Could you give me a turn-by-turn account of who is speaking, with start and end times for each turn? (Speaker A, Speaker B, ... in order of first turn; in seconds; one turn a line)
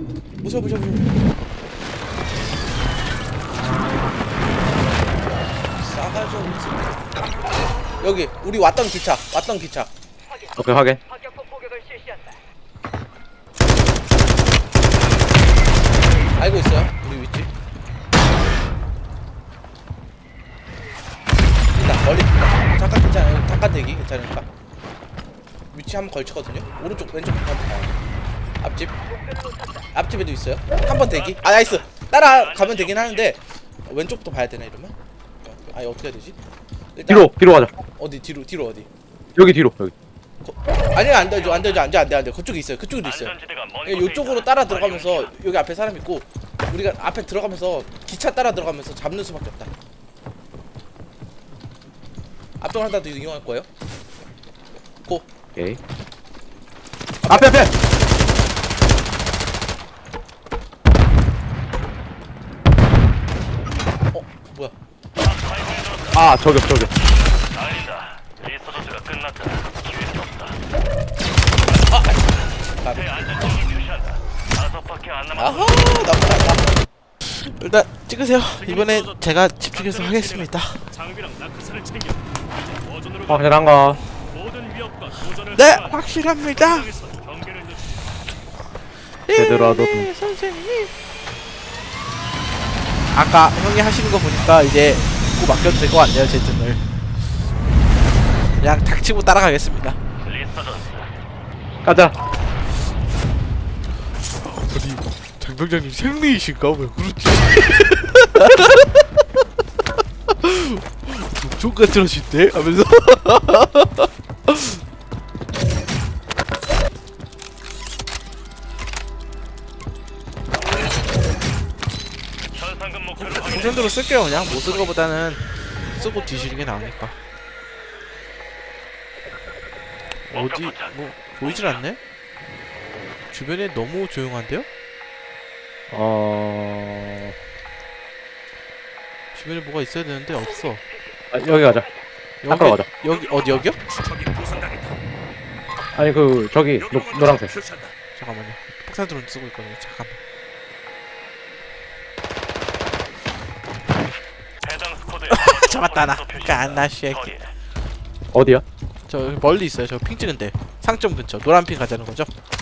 Speaker A: 0.4-1.1
Speaker A: 5.8-7.0
Speaker A: 8.0-9.9
Speaker B: 10.6-11.0
Speaker A: 16.4-17.5
Speaker A: 21.7-24.5
Speaker A: 25.7-27.9
Speaker A: 28.6-28.9
Speaker A: 29.9-36.4
Speaker C: 31.2-33.3
Speaker A: 37.0-37.4
Speaker B: 37.1-37.7
Speaker A: 38.0-38.9
Speaker B: 39.4-39.9
Speaker A: 40.4-49.7
Speaker C: 41.4-41.8
Speaker C: 43.0-45.3
Speaker A: 52.6-53.7
Speaker B: 55.5-55.8
Speaker A: 57.2-57.6
Speaker B: 57.3-57.7
Speaker A: 64.1-64.7
Speaker C: 65.2-66.3
Speaker B: 66.1-66.9
Speaker C: 67.0-70.6
Speaker A: 71.9-72.3
Speaker A: 72.8-73.2
Speaker C: 72.9-76.0
Speaker A: 75.3-76.7
Speaker A: 77.2-80.8
Speaker D: 78.6-88.1
Speaker B: 83.3-84.0
Speaker A: 85.5-86.9
Speaker A: 89.2-90.9
Speaker B: 89.3-90.1
Speaker A: 93.1-96.8
Speaker A: 98.6-100.0
Speaker C: 100.2-101.1
Speaker B: 101.8-102.1
Speaker A: 104.6-109.2
Speaker A: 110.3-114.8
Speaker C: 122.5-124.9
Speaker A: 123.2-127.2
Speaker A: 130.3-132.0
Speaker C: 130.3-131.8
Speaker A: 133.3-134.7
Speaker B: 135.9-137.3
Speaker A: 139.3-140.8
Speaker B: 141.3-141.9
Speaker A: 142.4-143.8
Speaker B: 142.5-142.9
Speaker D: 143.0-145.0
Speaker B: 145.9-147.5
Speaker D: 146.8-147.9
Speaker A: 148.2-150.2
Speaker C: 154.6-157.5
Speaker A: 155.3-157.3
Speaker B: 158.3-158.6
Speaker A: 159.1-162.3